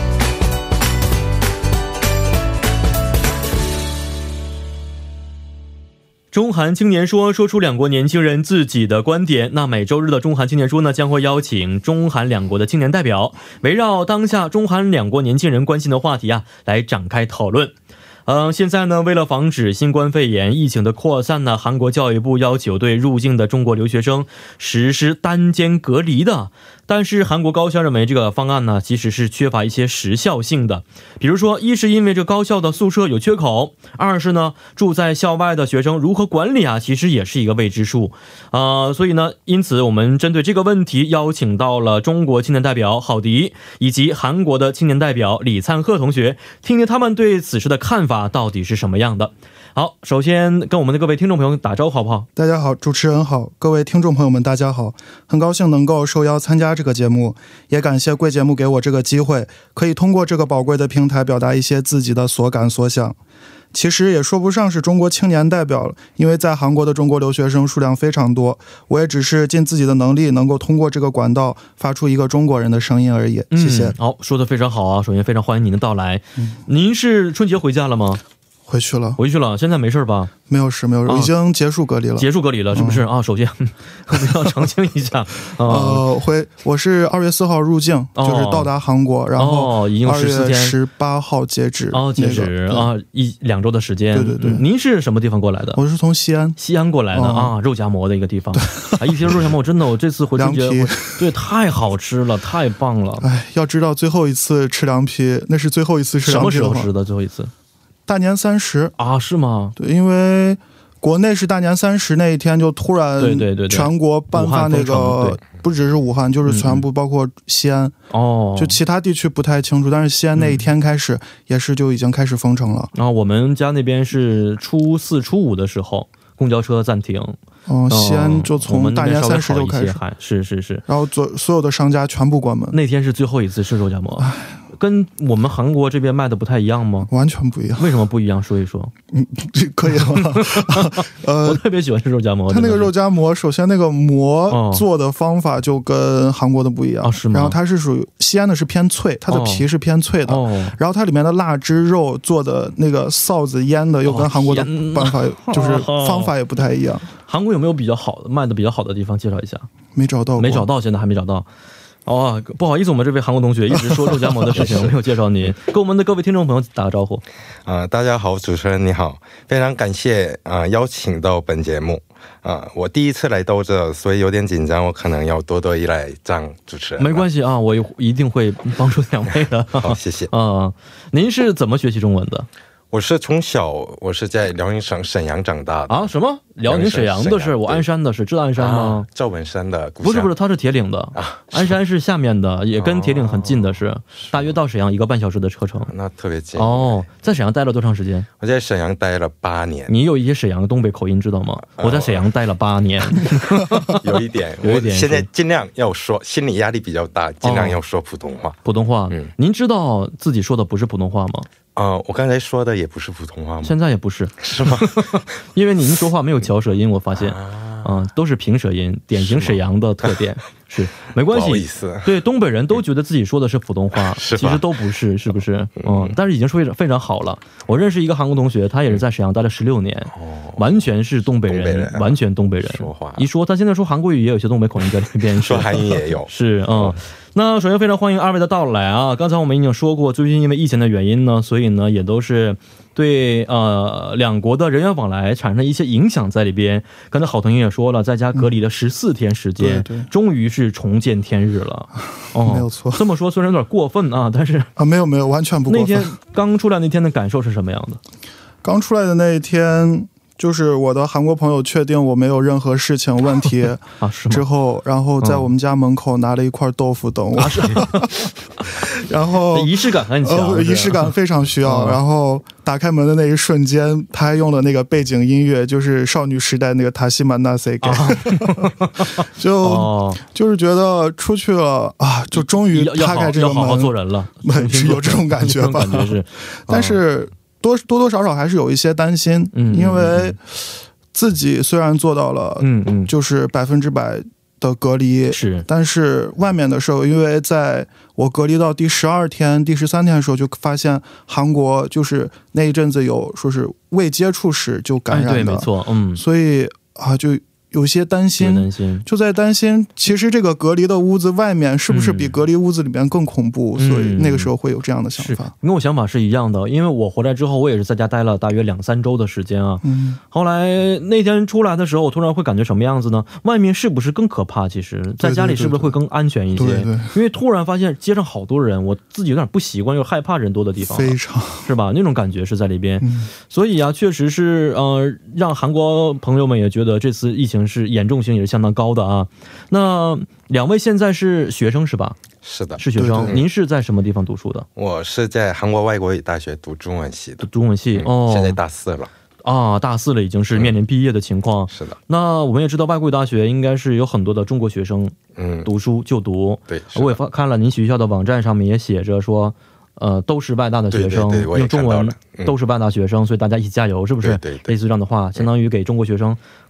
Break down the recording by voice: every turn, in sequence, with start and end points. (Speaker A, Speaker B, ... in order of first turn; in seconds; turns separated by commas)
Speaker A: 6.3-17.7, Speaker A: 18.2-52.3, Speaker B: 52.4-63.1, Speaker B: 63.7-73.9, Speaker A: 73.5-78.2, Speaker B: 78.7-79.2, Speaker A: 79.2-80.3, Speaker B: 80.5-83.0, Speaker A: 82.2-86.0, Speaker B: 84.2-84.5, Speaker B: 85.5-92.9, Speaker A: 88.2-88.7, Speaker A: 89.4-90.8, Speaker A: 91.9-95.8, Speaker B: 94.1-94.6, Speaker B: 95.7-96.6, Speaker A: 96.6-103.3, Speaker B: 97.1-97.5, Speaker B: 98.5-99.4, Speaker B: 100.4-101.2, Speaker B: 103.2-106.9, Speaker A: 106.2-107.5, Speaker B: 108.1-108.9, Speaker A: 109.0-109.8, Speaker B: 109.8-118.0, Speaker A: 113.2-115.4, Speaker A: 116.5-116.8, Speaker A: 118.1-118.8, Speaker B: 118.5-122.9, Speaker A: 122.9-127.3, Speaker B: 127.7-130.0, Speaker A: 127.9-130.8, Speaker B: 130.9-132.8, Speaker A: 132.7-137.1, Speaker B: 134.2-134.6, Speaker B: 137.1-137.9, Speaker A: 137.8-138.9, Speaker B: 139.1-141.6, Speaker A: 140.1-142.9, Speaker B: 142.5-157.1, Speaker A: 144.5-144.8, Speaker A: 147.0-147.6, Speaker A: 149.3-149.7, Speaker A: 150.3-150.8, Speaker A: 154.1-156.3, Speaker A: 157.3-159.7, Speaker B: 159.9-160.7, Speaker A: 160.4-161.5, Speaker A: 162.1-167.2, Speaker C: 167.7-177.2, Speaker A: 177.0-182.5, Speaker C: 179.8-180.3, Speaker C: 182.9-186.1, Speaker A: 185.9-189.1, Speaker C: 186.6-187.8, Speaker C: 188.6-190.3, Speaker A: 190.0-195.9, Speaker C: 191.1-191.8, Speaker C: 192.8-194.5, Speaker C: 195.9-197.0, Speaker A: 196.6-198.3, Speaker C: 198.4-199.9, Speaker A: 199.9-204.1, Speaker C: 201.8-202.2, Speaker C: 203.8-208.6, Speaker A: 204.6-205.3, Speaker A: 207.4-207.8, Speaker A: 208.6-211.5, Speaker C: 211.8-213.7, Speaker A: 213.6-254.7, Speaker C: 214.4-215.2, Speaker C: 217.1-217.9, Speaker C: 219.2-219.6, Speaker C: 221.2-222.1, Speaker C: 224.1-224.7, Speaker C: 225.8-226.1, Speaker C: 230.1-230.8, Speaker C: 231.4-233.3, Speaker C: 235.3-237.0, Speaker B: 249.6-250.1, Speaker B: 252.3-253.0, Speaker B: 254.8-256.1, Speaker A: 255.7-258.0, Speaker B: 258.6-315.5, Speaker A: 264.0-264.4, Speaker A: 265.2-265.5, Speaker A: 267.4-268.3, Speaker A: 269.5-271.1, Speaker A: 271.6-272.0, Speaker A: 277.8-280.2, Speaker A: 282.3-287.0, Speaker A: 289.5-290.3, Speaker A: 292.6-293.1, Speaker A: 295.3-295.7, Speaker A: 305.1-306.2, Speaker A: 308.4-309.0, Speaker A: 311.9-312.4, Speaker A: 313.8-314.5, Speaker A: 315.2-342.2, Speaker B: 319.8-320.2, Speaker B: 325.2-325.9, Speaker B: 326.6-327.1, Speaker B: 330.8-331.7, Speaker B: 333.0-333.3, Speaker C: 342.4-343.4, Speaker A: 342.8-344.7, Speaker B: 342.9-343.3, Speaker C: 344.8-349.1, Speaker A: 347.4-348.6, Speaker A: 349.4-366.4, Speaker C: 351.7-352.0, Speaker C: 355.4-355.7, Speaker C: 356.7-357.2, Speaker C: 360.9-362.5, Speaker C: 364.2-364.7